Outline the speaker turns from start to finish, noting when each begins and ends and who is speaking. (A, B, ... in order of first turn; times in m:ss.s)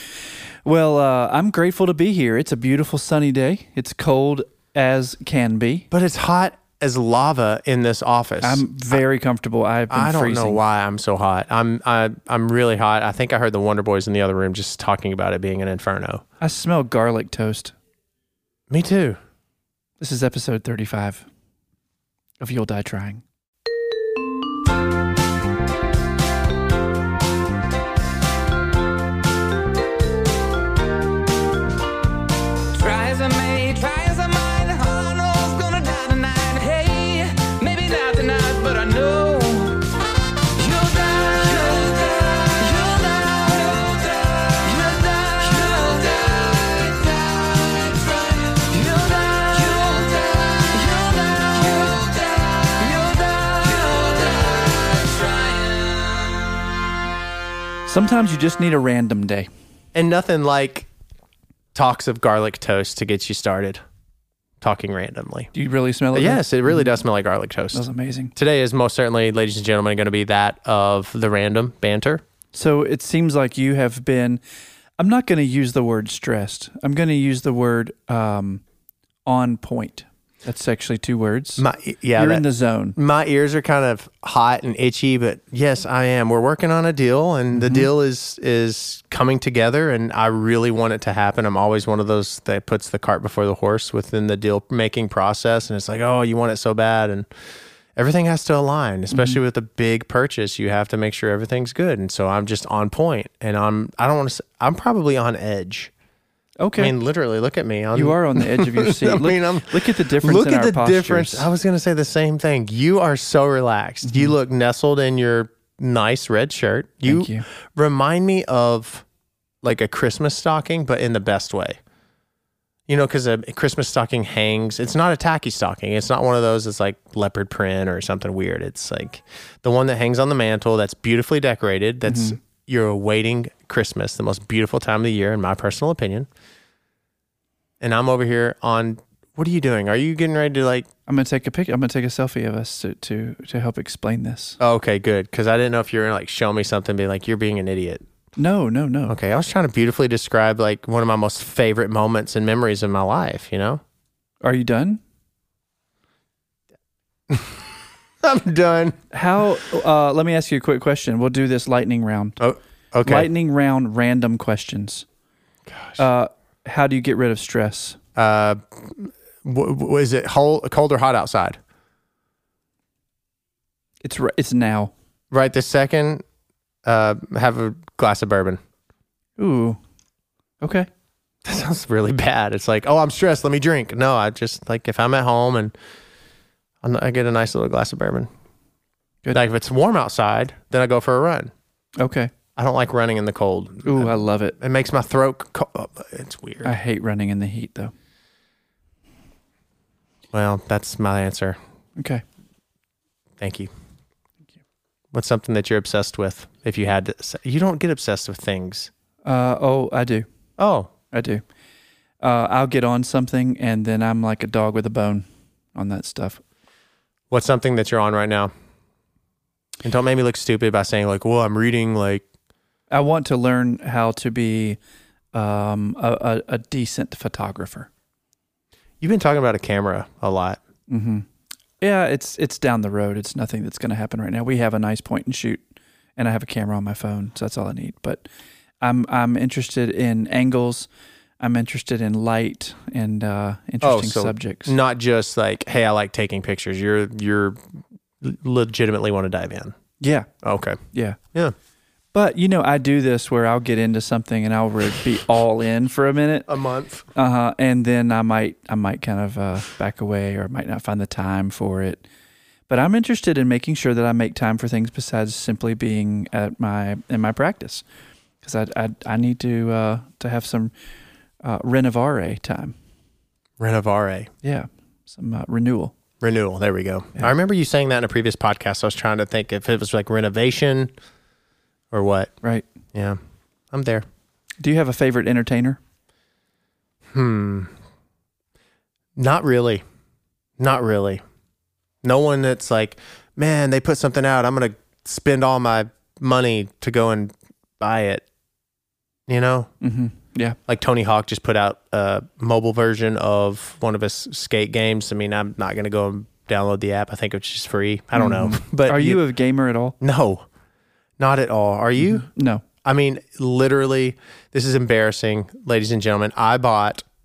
0:00.6-0:05.9 A
0:05.9-0:09.0 B
0:08.4-0:10.6 A
0:09.9-0:16.2 B
0:16.4-0:17.7 A
0:18.7-0:19.2 B
0:20.0-0:21.3 A
0:22.4-0:23.2 A
0:32.7-0:39.9 C
0:40.5-0:56.3 C
0:57.9-0:59.5 A
0:59.9-1:00.9 B
1:01.7-1:03.8 B
1:04.6-1:05.5 B
1:05.5-1:06.9 A
1:06.1-1:07.8 B
1:07.7-1:08.3 A
1:08.4-1:12.2 B
1:12.5-1:14.4 A
1:15.0-1:18.6 A
1:19.3-1:21.6 A
1:21.6-1:22.4 B
1:22.2-1:23.0 A
1:23.0-1:37.3 B
1:27.5-1:27.9 A
1:38.0-1:45.9 B
1:39.1-1:39.4 A
1:46.6-1:46.9 A
1:46.8-1:59.0 B
1:47.9-1:51.5 A
1:54.1-1:54.3 A
1:57.0-1:57.5 A
1:59.6-2:01.8 B
2:02.9-2:16.3 B
2:12.1-2:12.4 A
2:17.8-2:20.9 B
2:21.1-2:24.6 A
2:24.6-2:28.0 B
2:28.4-2:29.2 A
2:29.1-2:33.8 B
2:34.4-2:35.0 A
2:37.3-2:37.7 B
2:38.2-2:39.0 B
2:39.1-2:42.4 A
2:42.4-2:43.3 B
2:43.0-2:45.0 A
2:45.7-2:46.0 B
2:46.0-2:48.0 A
2:48.2-2:51.6 B
2:54.0-2:54.9 A
2:55.3-2:56.2 B
2:56.8-2:58.6 B
2:59.4-2:59.8 A
3:00.6-3:00.9 A
3:01.4-3:05.7 B
3:06.8-3:08.3 B
3:09.3-3:11.5 B
3:12.0-3:12.3 A
3:12.6-3:16.7 B
3:13.8-3:14.6 A
3:16.6-3:17.9 A
3:20.3-3:21.6 B
3:22.0-3:22.2 A
3:23.4-3:23.7 B
3:25.1-3:28.9 B
3:29.2-3:30.3 A
3:30.6-3:30.9 B
3:31.1-3:31.4 A
3:32.2-3:36.4 A
3:37.3-3:38.5 B
3:39.8-3:42.2 B
3:42.9-3:44.8 A
3:45.3-3:47.9 A
3:49.0-3:50.6 B
3:50.9-3:51.3 A
3:51.8-3:55.6 A
3:56.2-3:58.2 A
3:58.8-4:00.9 A
4:01.4-4:04.8 A
4:03.8-4:09.8 B
4:10.0-4:10.3 A
4:10.4-4:10.8 B
4:10.9-4:11.2 A
4:12.1-4:16.5 A
4:16.5-4:17.1 B
4:17.1-4:22.0 A
4:22.7-4:27.8 A
4:28.4-4:30.7 A
4:31.4-4:32.8 A
4:33.6-4:34.3 B
4:34.4-4:36.0 A
4:36.2-4:40.9 B
4:41.9-4:42.3 B
4:42.9-4:43.2 B
4:43.7-4:44.0 B
4:44.6-4:45.8 A
4:47.1-4:47.7 B
4:49.2-4:49.8 B
4:50.6-4:51.2 B
4:52.0-4:58.2 B
4:59.3-4:59.7 B
4:59.8-5:00.6 A
5:00.7-5:09.2 B
5:08.2-5:10.0 A
5:10.0-5:10.4 B
5:11.2-5:12.3 B
5:12.0-5:12.6 A
5:12.8-5:17.0 B